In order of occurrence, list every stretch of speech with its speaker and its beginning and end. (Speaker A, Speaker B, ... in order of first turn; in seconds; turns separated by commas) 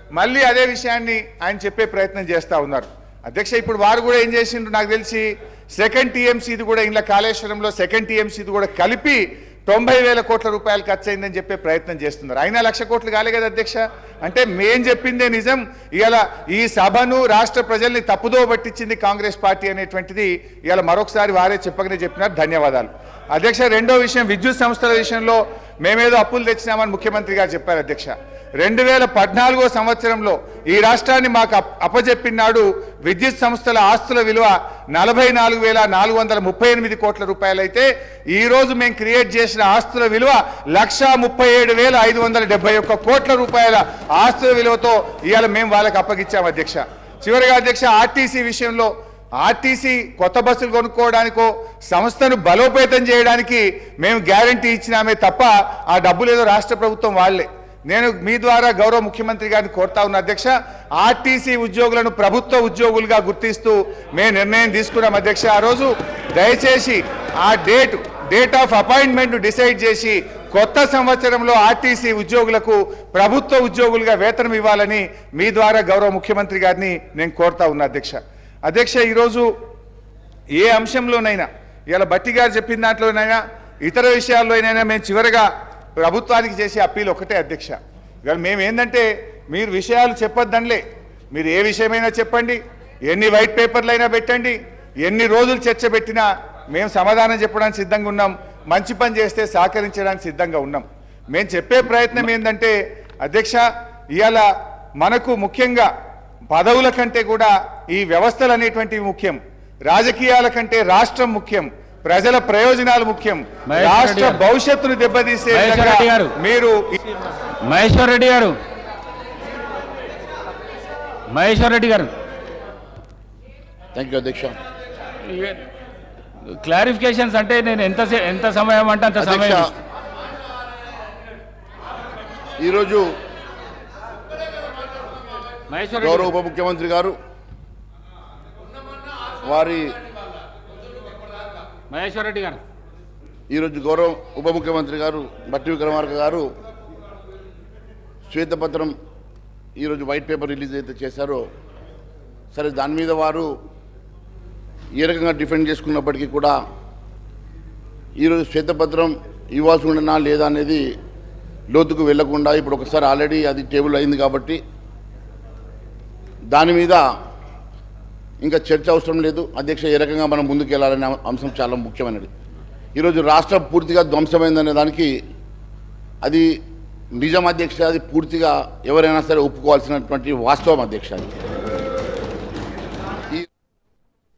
Speaker A: 0.1-79.5, Speaker A: 80.6-85.5, Speaker A: 86.0-90.8, Speaker A: 91.3-104.5, Speaker A: 105.0-105.9, Speaker A: 106.5-117.0, Speaker B: 113.7-114.4, Speaker B: 115.5-116.3, Speaker B: 117.7-118.6, Speaker B: 121.3-122.1, Speaker C: 123.9-124.6, Speaker B: 125.2-125.6, Speaker B: 126.4-129.8, Speaker C: 129.2-129.7, Speaker C: 132.6-133.1, Speaker B: 135.7-136.3, Speaker C: 136.0-137.2, Speaker C: 139.4-140.0, Speaker B: 141.9-142.6, Speaker C: 143.5-146.5, Speaker C: 148.3-148.9, Speaker C: 149.8-151.5, Speaker C: 152.5-153.5, Speaker C: 155.0-156.6, Speaker C: 158.2-160.8, Speaker C: 161.7-164.6, Speaker C: 166.5-167.0, Speaker C: 168.4-172.3, Speaker C: 172.9-175.1, Speaker C: 176.2-176.5, Speaker C: 177.2-181.3